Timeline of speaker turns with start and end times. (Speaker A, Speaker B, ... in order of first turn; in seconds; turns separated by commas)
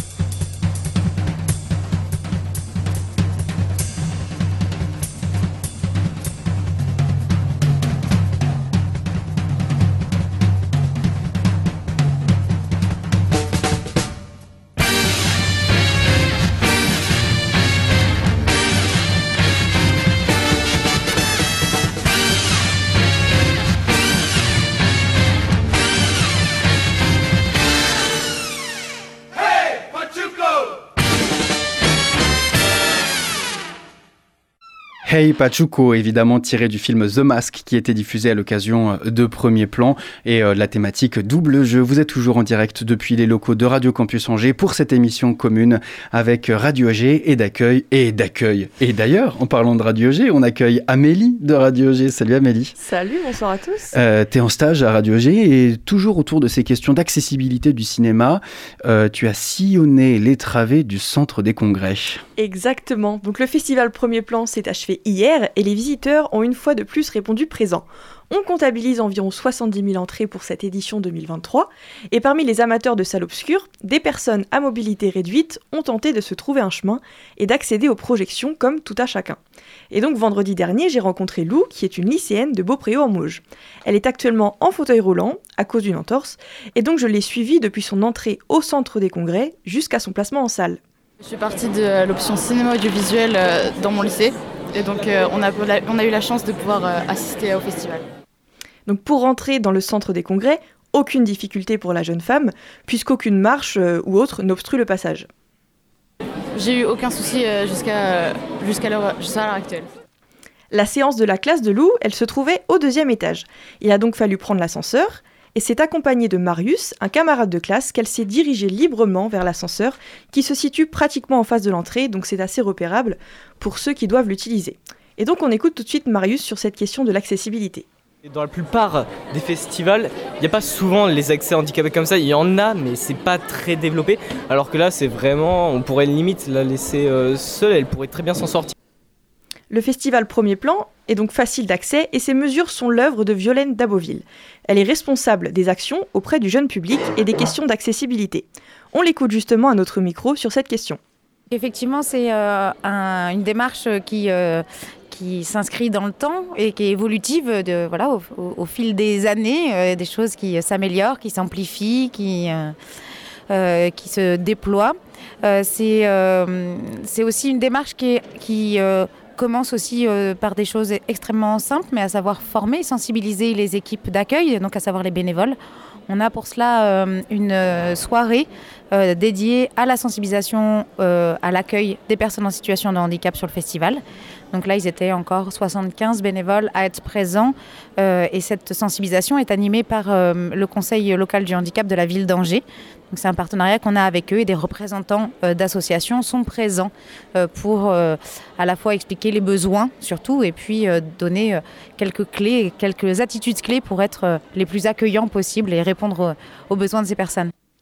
Speaker A: 35.0-52.8, Speaker B: 52.8-53.9, Speaker A: 53.9-62.2, Speaker B: 62.4-79.4, Speaker B: 79.9-90.8, Speaker C: 91.2-98.0, Speaker B: 98.9-105.3, Speaker C: 106.5-109.9, Speaker B: 110.7-127.8, Speaker D: 128.2-138.7, Speaker B: 139.7-151.0, Speaker E: 151.5-162.7, Speaker E: 163.5-175.6, Speaker E: 176.1-207.5